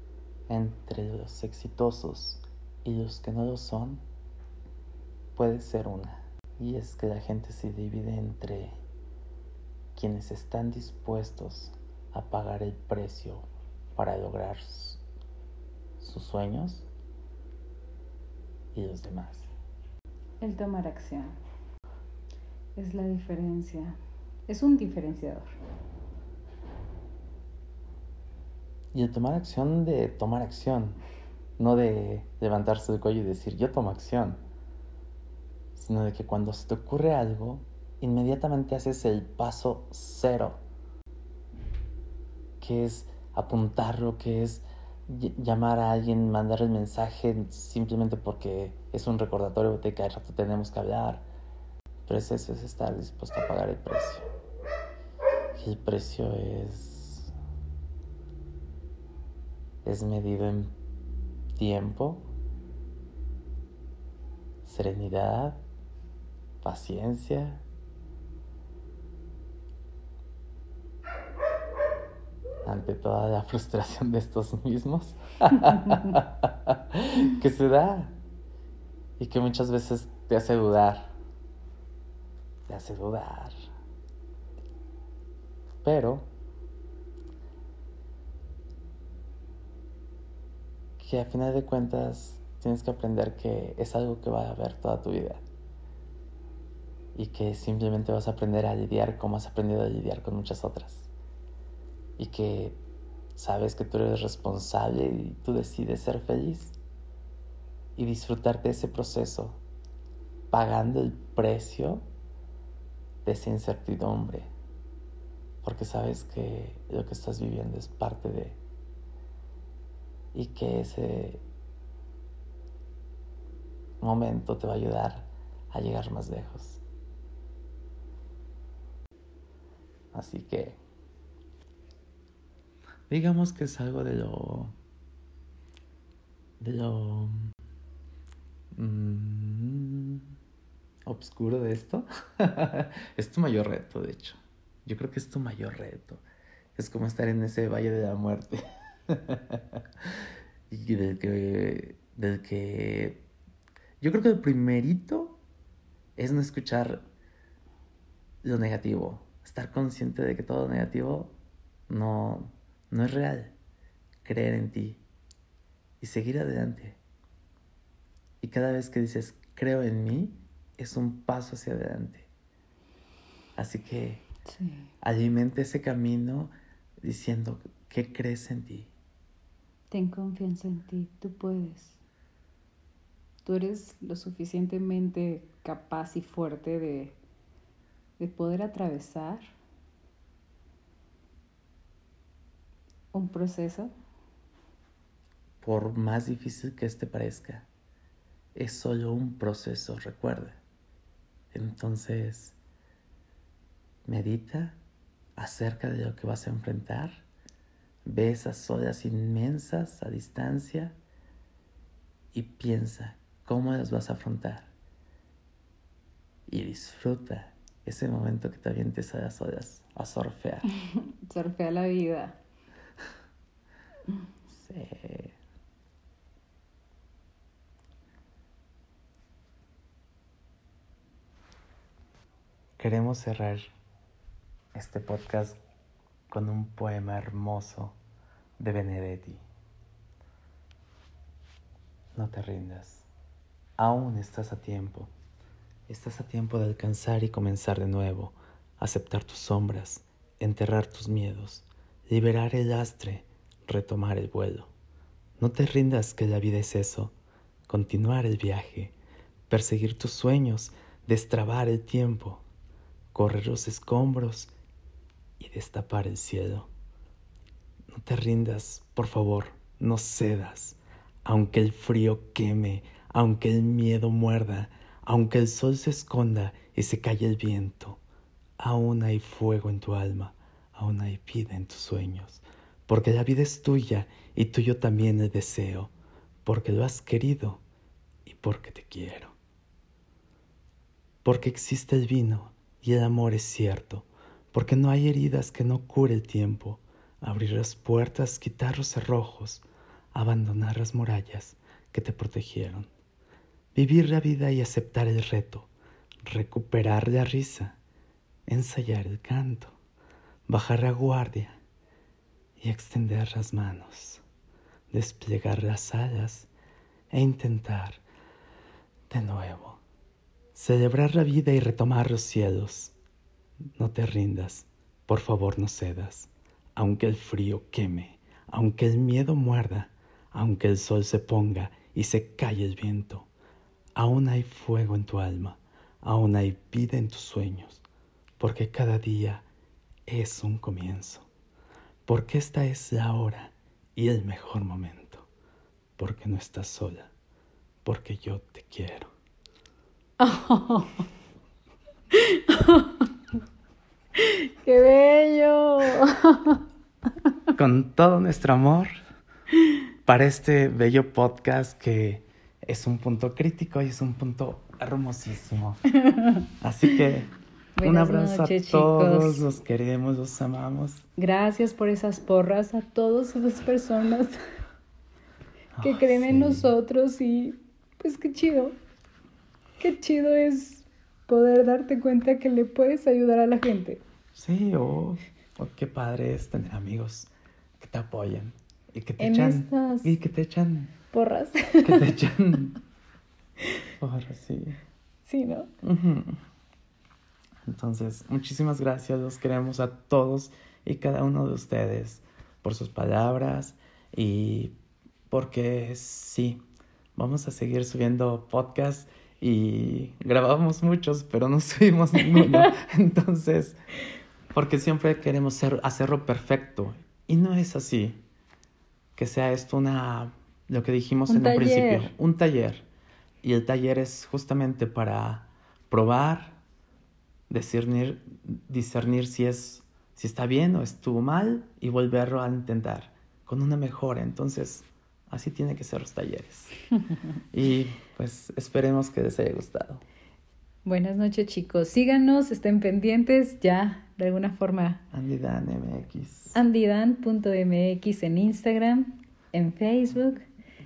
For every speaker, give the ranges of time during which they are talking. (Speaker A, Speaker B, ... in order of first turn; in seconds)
Speaker A: 0.5-4.0, 5.3-8.8, 9.9-15.0, 16.0-16.9, 18.7-19.5, 28.9-31.0, 31.6-34.4, 35.7-40.6, 42.6-51.3, 52.0-54.2, 55.5-57.3, 59.8-60.7, 61.6-62.3, 64.6-65.6, 66.6-67.6, 72.6-78.2, 79.2-81.2, 82.7-83.5, 85.8-86.3, 91.0-95.4, 97.1-101.1, 102.2-102.8, 103.3-106.7, 108.0-109.6, 110.5-112.0, 113.2-114.5, 115.6-118.6, 120.3-121.4, 124.0-126.8, 130.1-130.8, 133.1-134.7, 136.6-137.5, 138.8-140.2, 141.1-146.2, 146.7-148.6, 149.1-149.8, 150.7-153.3, 154.0-155.4, 156.2-157.1, 158.4-161.3, 161.9-163.5, 164.2-165.0, 166.0-167.0, 168.4-172.3, 173.6-174.2, 175.0-178.9, 195.6-197.7, 198.6-200.6, 201.5-202.6, 204.1-204.8, 205.4-207.2, 208.0-211.0, 212.3-214.7, 216.5-220.7, 224.5-225.4, 232.8-233.7, 234.7-235.6, 236.3-238.0, 238.6-239.4, 242.1-243.1, 243.8-245.1, 245.9-254.7, 255.4-257.1, 257.7-258.9, 259.5-262.4, 263.1-264.5, 265.4-266.7, 267.9-278.0, 278.6-285.9, 286.4-287.6, 288.2-289.3, 291.2-302.9, 303.7-305.7, 306.2-307.8, 308.5-309.8, 310.5-311.6, 312.6-314.2, 314.9-316.5, 317.1-318.0, 319.1-319.8, 320.5-322.9, 323.8-333.3, 333.9-337.8, 338.4-339.4, 340.1-341.3, 342.1-345.3, 346.0-347.1, 347.8-349.1, 357.5-358.9, 360.0-365.8, 366.6-367.3, 367.8-371.0, 375.7-376.7, 384.3-390.9, 391.8-392.8, 394.0-394.8, 395.8-396.4, 397.7-404.7, 405.3-406.6, 407.1-413.8, 414.5-418.2, 419.1-422.9, 423.4-426.6, 427.5-436.7, 437.5-440.0, 445.1-446.6
Speaker B: 20.4-21.4, 22.7-25.5, 174.5-174.9, 179.9-182.0, 183.4-187.2, 188.2-189.5, 193.1-193.9, 220.7-222.4, 350.2-351.0, 352.1-353.1, 354.2-356.6, 366.0-366.4, 367.8-369.4, 371.2-374.3, 375.8-378.8, 379.8-384.0, 389.2-390.1, 391.1-392.1, 395.2-395.7, 421.3-422.1, 440.8-445.0, 446.5-450.4